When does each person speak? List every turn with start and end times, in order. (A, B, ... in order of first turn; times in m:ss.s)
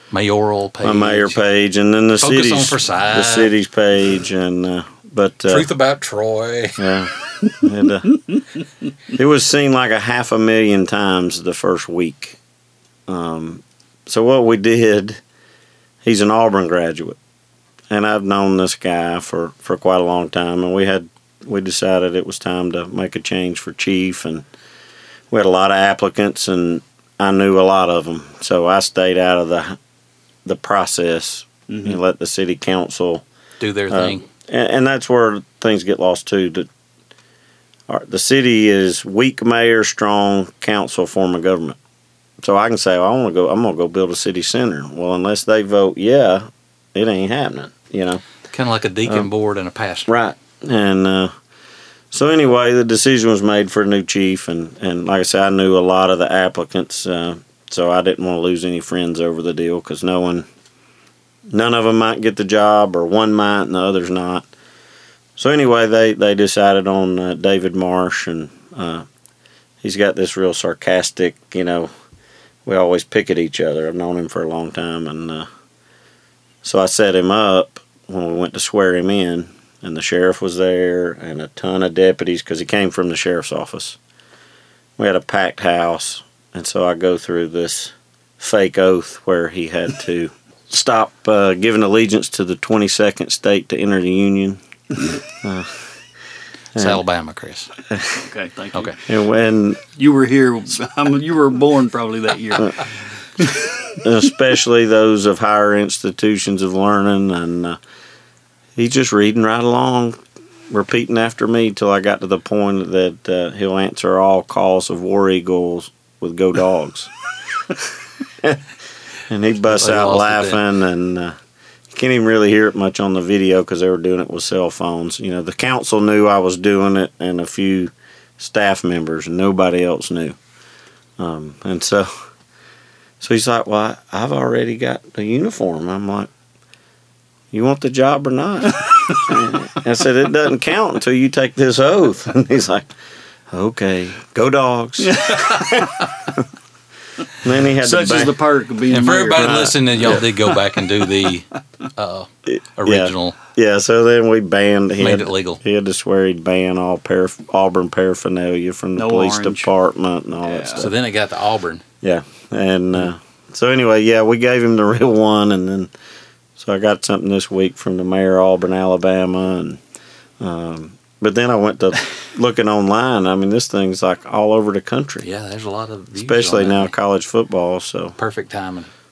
0:00.1-0:01.4 A
0:00.8-0:05.7 B
0:02.2-0:03.5 A
0:05.5-0:06.8 A
0:06.8-0:08.2 B
0:09.1-0:12.4 B
0:13.1-0:15.2 B
0:16.0-0:17.2 B
0:17.9-0:24.4 B
0:25.3-0:29.8 B
0:30.4-0:33.2 B
0:31.7-0:32.0 C
0:33.6-0:34.2 A
0:33.9-0:36.7 B
0:37.9-0:41.8 B
0:42.4-0:48.2 B
0:48.5-0:50.1 A
0:50.1-0:51.3 B
0:52.1-1:00.4 B
1:01.5-1:04.5 B
1:05.4-1:09.0 B
1:09.8-1:11.9 B
1:12.6-1:15.5 B
1:16.6-1:24.0 B
1:25.0-1:34.6 B
1:35.3-1:35.9 B
1:36.7-1:37.0 B
1:36.7-1:37.7 A
1:37.9-1:38.2 B
1:38.2-1:39.0 C
1:39.0-1:39.8 B
1:39.9-1:44.0 C
1:44.0-1:47.8 B
1:48.8-1:57.1 B
1:59.3-2:01.3 B
1:59.6-2:00.6 A
2:01.9-2:10.4 B
2:11.2-2:12.1 B
2:13.2-2:16.3 B
2:17.5-2:22.9 B
2:23.5-2:26.4 B
2:25.0-2:25.9 C
2:27.4-2:28.4 B
2:27.8-2:30.5 C
2:28.9-2:33.4 A
2:29.3-2:30.2 B
2:32.5-2:40.9 B
2:35.0-2:35.6 A
2:39.0-2:39.7 C
2:40.4-2:40.9 C
2:40.8-2:41.8 A
2:42.0-2:45.9 B
2:46.6-2:49.8 B
2:50.4-2:55.2 B
2:55.2-2:56.9 A
2:56.1-2:58.1 B
2:58.2-2:58.9 A